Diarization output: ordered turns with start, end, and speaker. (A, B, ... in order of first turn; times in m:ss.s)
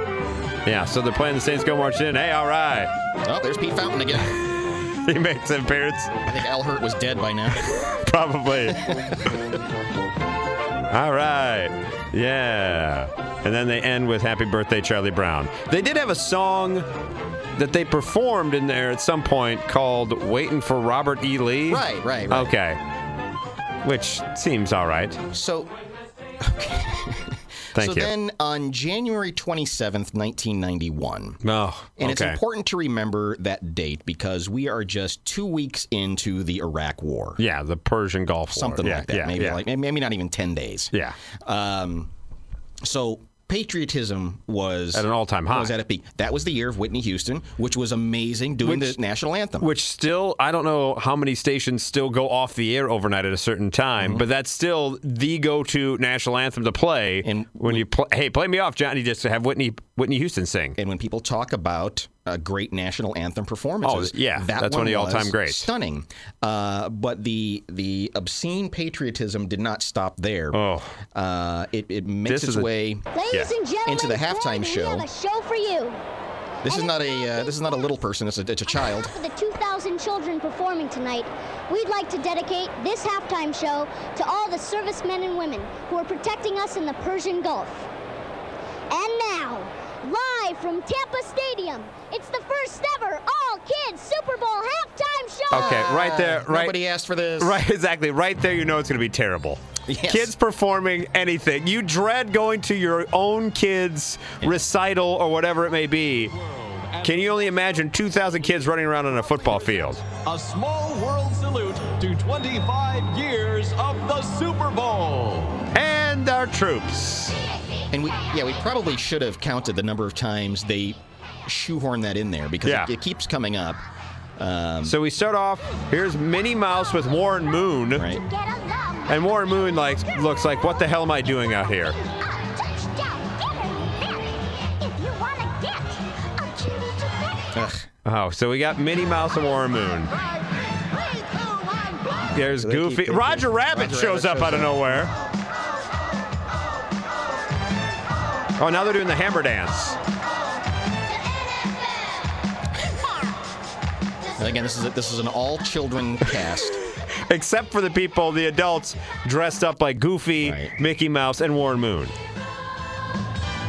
0:00.6-0:02.9 A
0:03.2-0:04.4 B
0:05.0-0:06.1 A
0:06.3-0:07.7 B
0:07.7-0:08.9 A
0:08.9-0:09.2 B
0:10.9-0:16.9 A
0:17.6-0:22.8 A
0:21.7-0:22.6 B
0:23.8-0:25.2 A
0:25.3-0:25.7 B
0:26.4-0:31.4 B
0:27.8-0:28.1 A
0:31.4-0:32.4 A
0:32.0-0:37.4 B
0:37.4-0:39.6 A
0:38.5-0:42.1 B
0:42.8-0:49.7 B
0:44.9-0:45.8 A
0:48.6-0:49.0 A
0:49.6-1:00.8 A
0:54.0-0:54.2 B
0:57.2-0:57.8 B
1:00.8-1:10.6 B
1:03.8-1:05.7 A
1:10.5-1:10.9 A
1:11.1-1:13.0 B
1:12.3-1:12.7 A
1:13.1-1:16.0 C
1:13.8-1:15.1 B
1:16.6-1:19.1 B
1:16.6-1:17.9 C
1:18.7-1:27.9 C
1:28.9-1:35.8 C
1:35.5-1:36.8 A
1:35.5-1:37.6 B
1:37.4-1:46.3 A
1:39.8-1:40.3 B
1:46.3-1:47.6 D
1:47.0-1:50.0 A
1:50.2-1:55.6 D
1:55.7-1:57.4 A
1:57.9-2:03.8 B
2:02.6-2:02.9 A
2:04.4-2:05.0 B
2:04.9-2:08.1 A
2:07.9-2:08.2 B
2:08.1-2:17.5 C
2:09.1-2:12.0 A
2:17.6-2:17.9 B
2:18.0-2:20.1 A
2:20.1-2:22.3 C
2:22.3-2:25.1 A
2:22.4-2:25.1 B
2:28.6-2:30.0 A
2:34.4-2:36.8 B
2:37.3-2:42.1 A
2:40.4-2:40.7 B